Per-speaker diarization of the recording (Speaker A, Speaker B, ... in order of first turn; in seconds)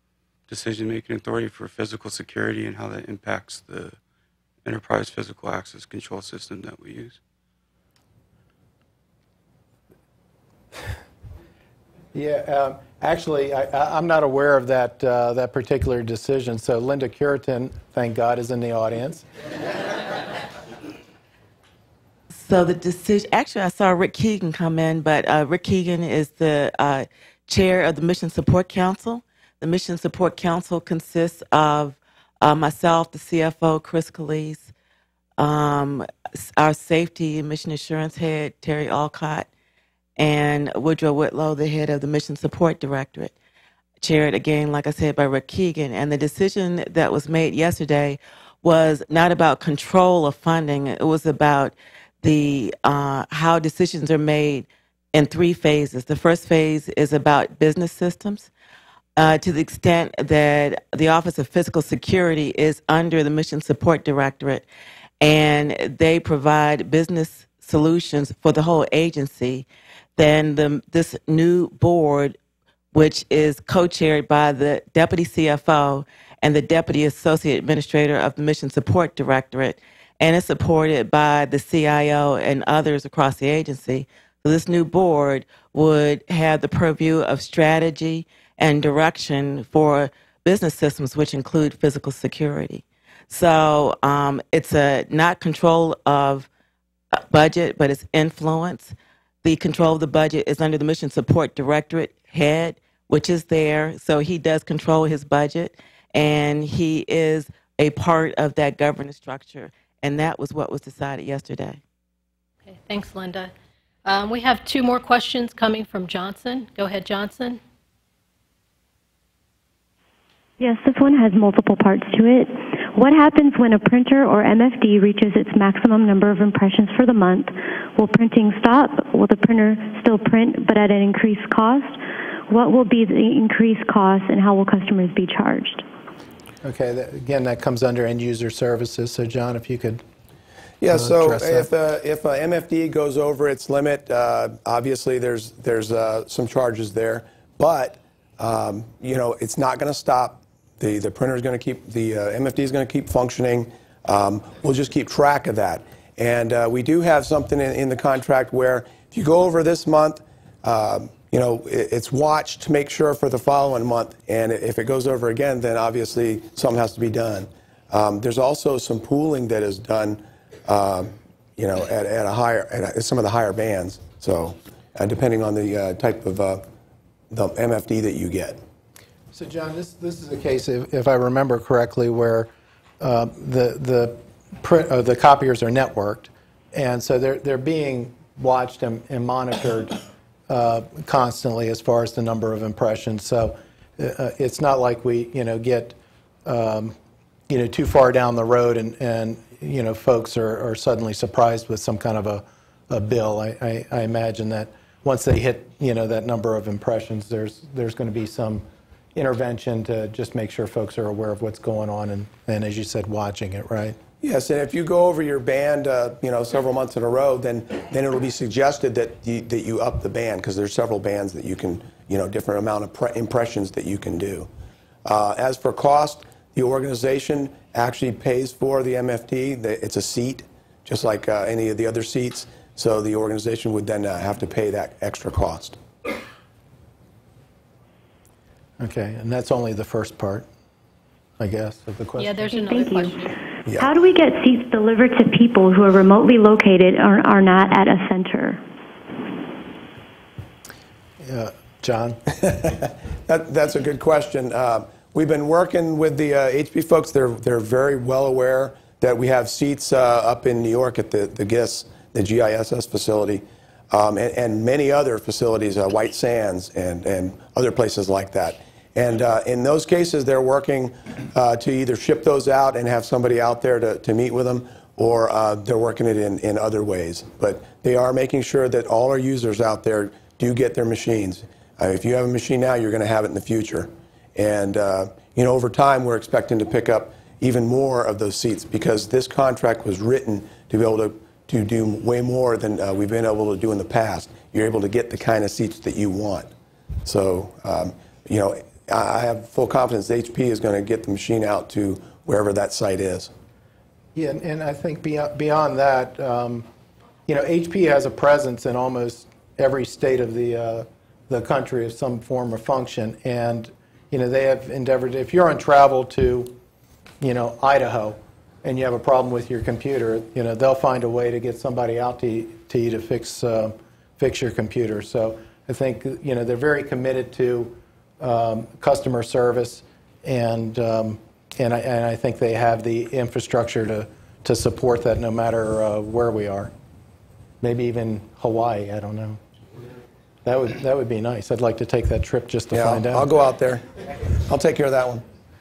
Speaker A: 0.5-4.0, 4.6-7.2
Speaker B: 12.1-19.2, 136.6-140.0, 140.9-141.7, 179.3-190.0, 190.5-196.9, 197.5-214.0, 238.8-240.4, 241.4-242.5, 251.2-252.2, 304.1-306.6, 307.3-316.6, 317.2-336.7, 337.6-339.4, 340.4-343.2
Speaker C: 22.3-34.7, 35.4-39.5, 40.2-43.3, 44.0-58.5, 59.1-64.7, 65.2-69.7, 70.2-72.4, 72.9-96.5, 97.3-111.8
Speaker D: 112.6-113.5, 114.0-117.6, 242.2-243.4
Speaker E: 120.6-135.8, 242.5-243.2, 243.8-248.6
Speaker F: 140.8-176.6, 177.3-178.6, 214.2-224.5, 225.0-235.8, 252.4-296.5, 297.0-303.3, 342.7-345.2